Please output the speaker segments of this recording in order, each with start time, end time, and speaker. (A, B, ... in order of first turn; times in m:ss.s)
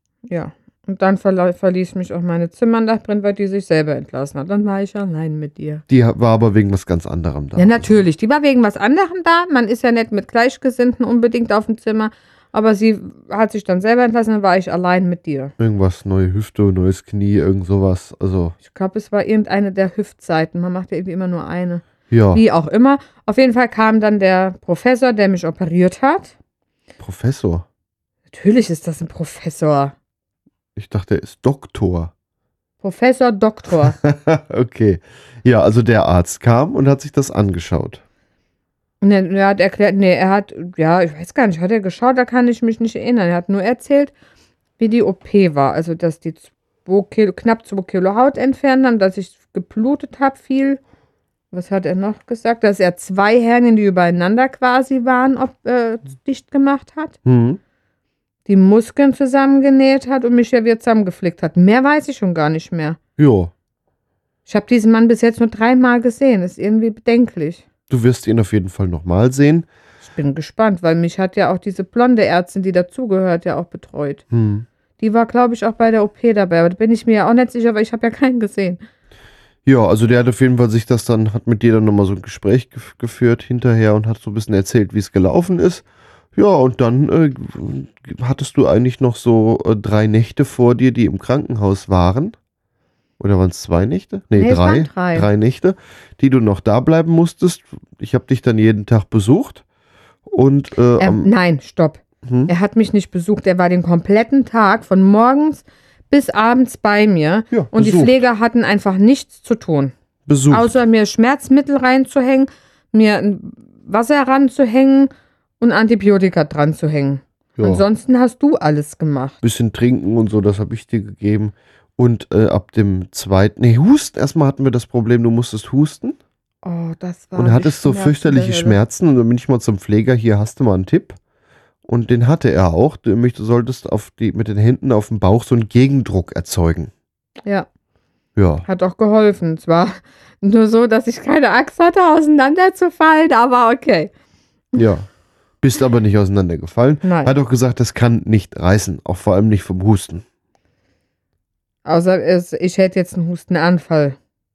0:00.3-0:05.8 A
0:05.9-0:08.0 B
0:07.6-0:15.5 A
0:15.6-0:18.6 B
0:18.6-0:26.4 A
0:22.1-0:22.4 B
0:27.0-0:27.7 B
0:28.3-0:30.0 A
0:30.8-0:32.1 B
0:32.8-0:34.0 A
0:34.0-0:38.0 B
0:39.0-0:44.1 A
0:44.8-0:50.8 A
0:51.5-0:57.2 A
0:57.2-0:57.6 B
0:58.5-1:03.0 A
1:03.2-1:03.5 B
1:04.5-1:07.6 A
1:07.9-1:09.7 B
1:10.0-1:14.2 A
1:14.3-1:14.7 B
1:15.0-1:18.8 A
1:19.6-1:25.8 B
1:26.4-1:32.4 B
1:33.2-1:39.6 B
1:34.4-1:35.3 A
1:40.3-1:41.3 B
1:41.0-1:49.9 A
1:42.2-1:42.5 B
1:47.5-1:48.2 B
1:50.3-1:50.7 B
1:50.5-1:59.4 A
1:57.6-1:57.8 B
1:59.4-2:06.2 B
2:06.6-2:08.8 A
2:07.4-2:11.2 B
2:11.9-2:16.9 B
2:18.4-2:18.7 B
2:18.7-2:24.1 A
2:24.8-2:25.1 B
2:25.6-2:30.2 B
2:27.0-2:27.3 A
2:31.8-2:34.2 A